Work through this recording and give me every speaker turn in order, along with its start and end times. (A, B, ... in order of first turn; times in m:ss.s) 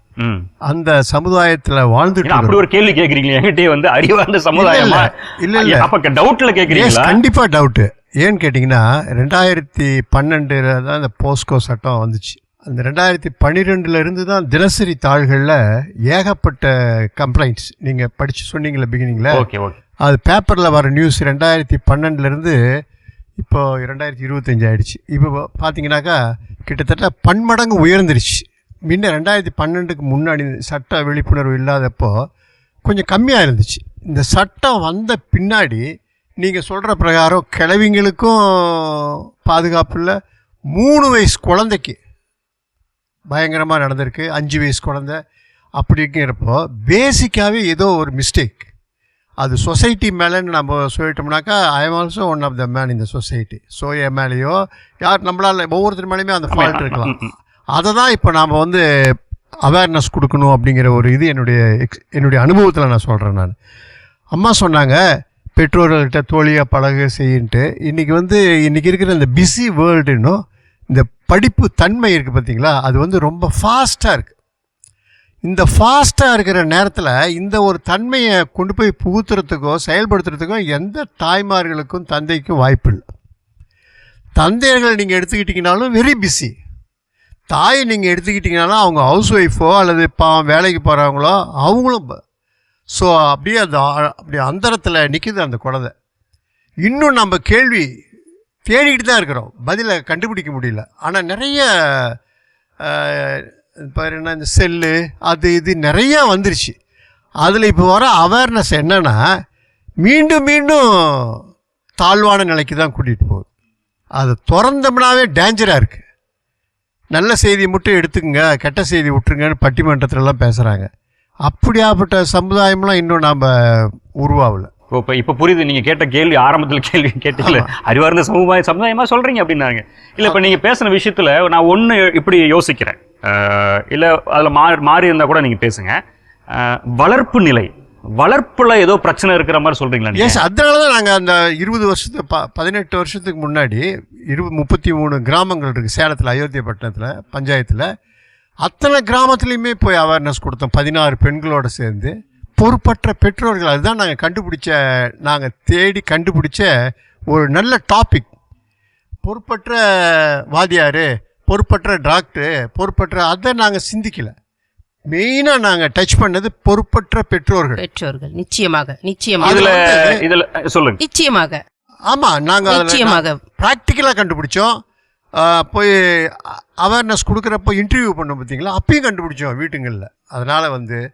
0:00.2-0:00.5 A
0:00.7-0:02.6 B
0:02.3-0:07.2 A
0:04.6-0:05.9 B
0:06.7-0:15.6 B
0:16.1-0:19.4 B
0:19.3-0:19.8 A
0:20.0-0:22.6 B
0:23.4-0:32.1 B
0:32.8-0:35.8 B
0:36.4-0:40.2 B
0:40.7-0:42.0 B
0:43.3-0:45.2 B
0:45.8-0:48.7 B
0:49.4-0:57.2 B
0:56.5-0:57.3 A
0:57.7-0:58.8 B
0:59.6-1:03.6 B
1:04.3-1:05.0 B
1:05.6-1:14.3 B
1:15.5-1:23.1 B
1:24.4-1:26.5 B
1:27.5-1:32.2 B
1:33.0-1:35.9 B
1:36.8-1:37.9 B
1:38.7-1:42.2 B
1:42.8-1:46.7 B
1:47.4-1:49.2 B
1:50.0-1:51.4 B
1:52.0-1:53.5 B
1:54.2-1:56.0 B
1:57.1-2:00.9 B
2:01.5-2:04.7 B
2:04.9-2:16.0 A
2:07.4-2:07.7 B
2:10.2-2:10.5 B
2:16.5-2:20.4 A
2:20.2-2:27.9 B
2:28.6-2:36.7 B
2:37.3-2:38.3 B
2:39.2-2:44.3 B
2:45.1-2:47.8 B
2:47.8-2:49.8 C
2:49.4-2:50.2 B
2:49.4-2:51.0 A
2:51.0-2:51.6 C
2:52.1-2:54.8 B
2:52.7-2:53.4 C
2:55.4-3:01.0 B